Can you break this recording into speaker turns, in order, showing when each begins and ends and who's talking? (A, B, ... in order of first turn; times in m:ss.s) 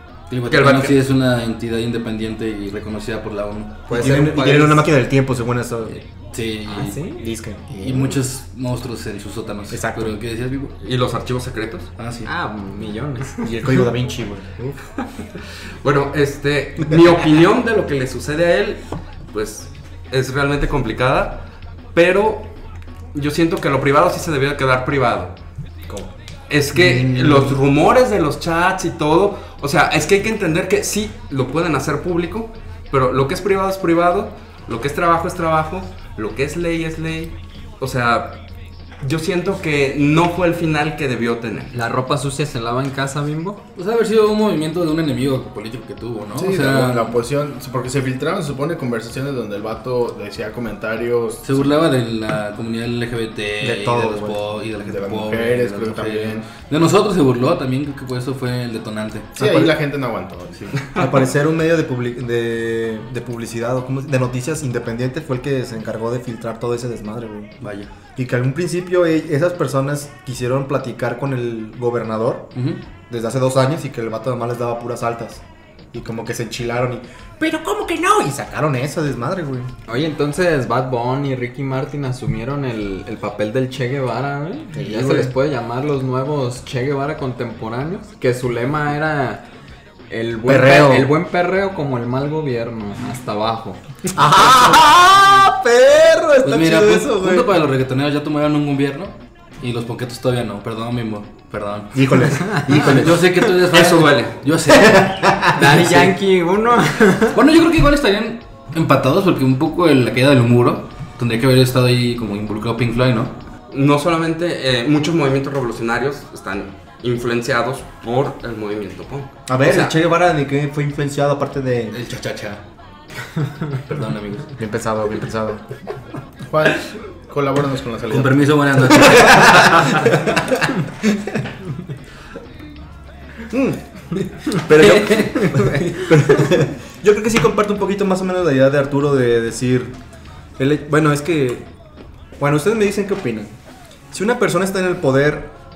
0:00.3-0:03.9 A
0:00.5-0:01.0 B
0:03.9-0:04.9 C
0:03.9-0:06.0 D
0:05.9-0:07.0 A
0:06.7-0:07.3 C
0:07.2-0:08.2 D
0:07.8-0:10.7 A
0:09.7-0:10.2 D
0:10.8-0:11.9 B
0:12.0-0:12.3 A
0:12.2-0:13.5 C
0:13.4-0:14.6 D
0:15.8-0:21.4 B
0:22.0-0:22.5 B
0:23.2-0:25.3 B
0:26.5-0:38.4 B
0:26.7-0:27.6 D
0:39.0-0:41.8 B
0:41.7-0:43.6 C
0:43.8-0:47.1 A
0:46.4-0:51.8 E
0:51.4-0:59.5 A
0:53.6-0:54.4 D
0:54.8-0:56.5 E
0:59.4-1:01.1 E
0:59.4-0:59.7 D
1:01.0-1:07.6 D
1:07.6-1:07.9 A
1:08.2-1:12.5 D
1:13.1-1:15.4 D
1:15.9-1:19.7 D
1:19.9-1:29.4 C
1:24.7-1:25.3 D
1:30.1-1:33.8 C
1:30.4-1:31.1 D
1:34.2-1:37.5 D
1:36.4-1:45.1 A
1:41.9-1:43.2 D
1:43.8-1:44.3 B
1:44.7-1:45.8 D
1:45.5-1:47.4 C
1:45.7-1:46.1 A
1:47.3-1:53.3 A
1:53.7-2:00.0 B
1:59.5-2:02.0 D
2:01.9-2:02.6 A
2:03.9-2:04.5 A
2:04.6-2:05.6 D
2:06.5-2:08.5 E
2:08.1-2:10.2 A
2:09.0-2:10.5 D
2:13.5-2:13.8 D
2:14.5-2:20.0 D
2:14.8-2:16.0 A
2:20.6-2:21.7 D
2:22.4-2:23.5 D
2:24.1-2:25.5 D